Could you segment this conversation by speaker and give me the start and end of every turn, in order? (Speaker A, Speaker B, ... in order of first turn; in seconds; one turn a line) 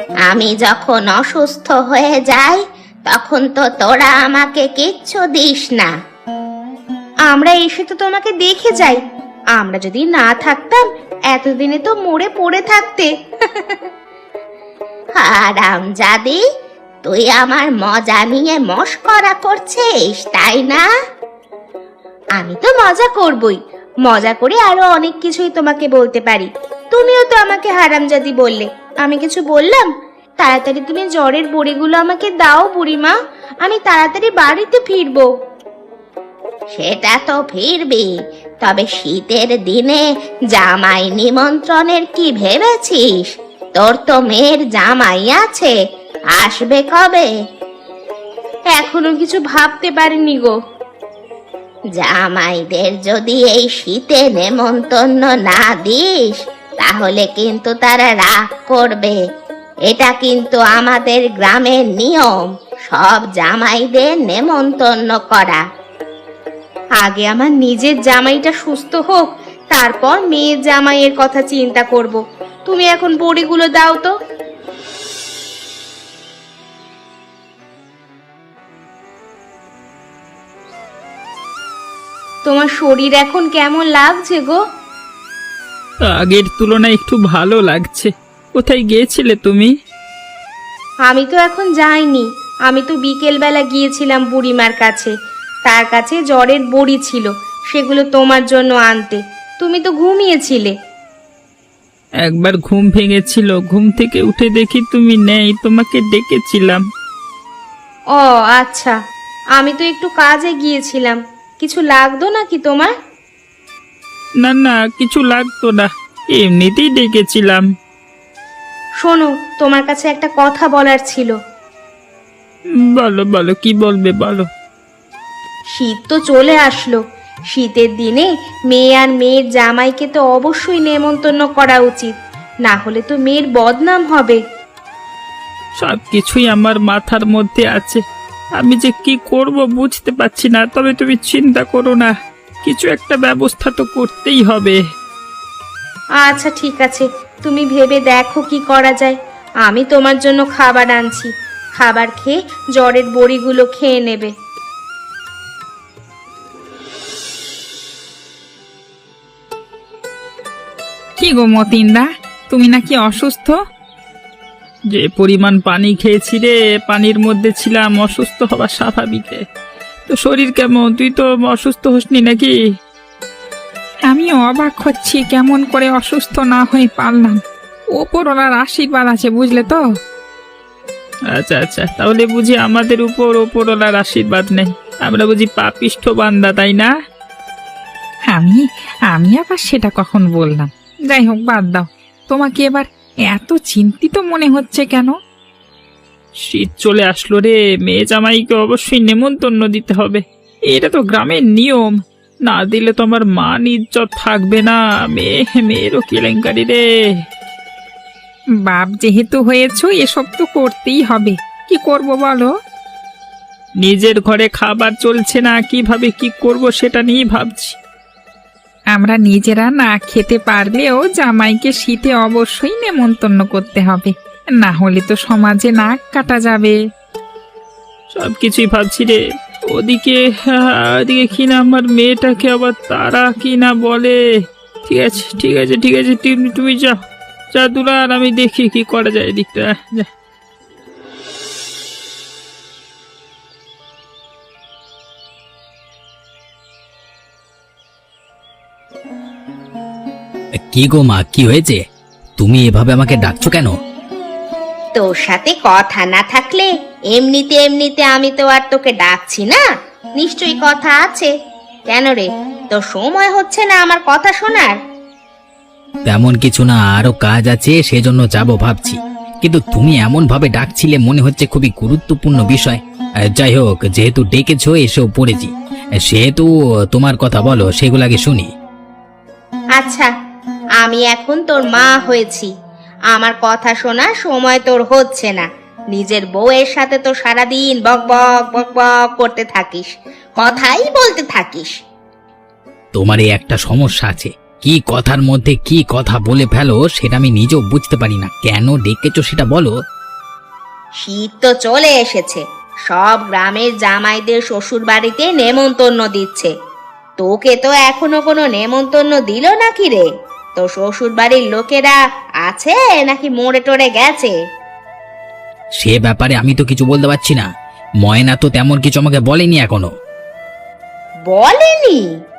Speaker A: 0.2-5.9
Speaker B: 7.3-9.0
Speaker B: 9.6-13.1
Speaker A: 15.2-16.4
Speaker A: 17.0-20.9
Speaker B: 22.4-35.3
Speaker A: 36.7-38.1
Speaker A: 38.6-40.0
Speaker A: 40.5-45.7
Speaker A: 46.4-47.3
Speaker B: 48.7-50.5
Speaker A: 52.0-59.2
Speaker A: 59.9-65.6
Speaker B: 67.0-74.1
Speaker B: 82.5-84.6
Speaker C: 86.1-89.7
Speaker B: 91.1-95.1
Speaker B: 95.7-100.7
Speaker C: 102.3-106.8
Speaker B: 108.2-109.0
Speaker B: 109.6-112.9
Speaker C: 114.4-117.7
Speaker B: 119.0-121.3
Speaker C: 122.8-124.5
Speaker B: 125.8-127.0
Speaker B: 127.5-134.4
Speaker C: 135.8-138.0
Speaker C: 138.6-142.1
Speaker C: 142.7-144.8
Speaker B: 146.2-154.3
Speaker D: 161.2-163.6
Speaker C: 164.9-169.4
Speaker C: 170.1-172.5
Speaker D: 174.1-177.4
Speaker D: 178.0-179.8
Speaker C: 181.3-186.9
Speaker D: 188.3-195.1
Speaker C: 196.4-201.9
Speaker C: 202.5-206.8
Speaker D: 208.6-212.5
Speaker C: 213.8-217.8
Speaker D: 218.9-226.8
Speaker C: 228.2-234.2
Speaker C: 234.9-237.0
Speaker C: 237.6-240.1
Speaker E: 250.7-251.8
Speaker E: 252.4-253.7
Speaker B: 254.9-259.6
Speaker B: 260.2-261.3
Speaker B: 261.9-264.8
Speaker E: 266.1-278.5
Speaker B: 279.8-280.1
Speaker B: 280.8-282.5
Speaker B: 283.1-291.8
Speaker E: 293.0-299.7
Speaker B: 301.0-306.5
Speaker B: 307.2-314.4
Speaker E: 315.8-317.5
Speaker E: 318.0-319.9
Speaker B: 321.3-322.1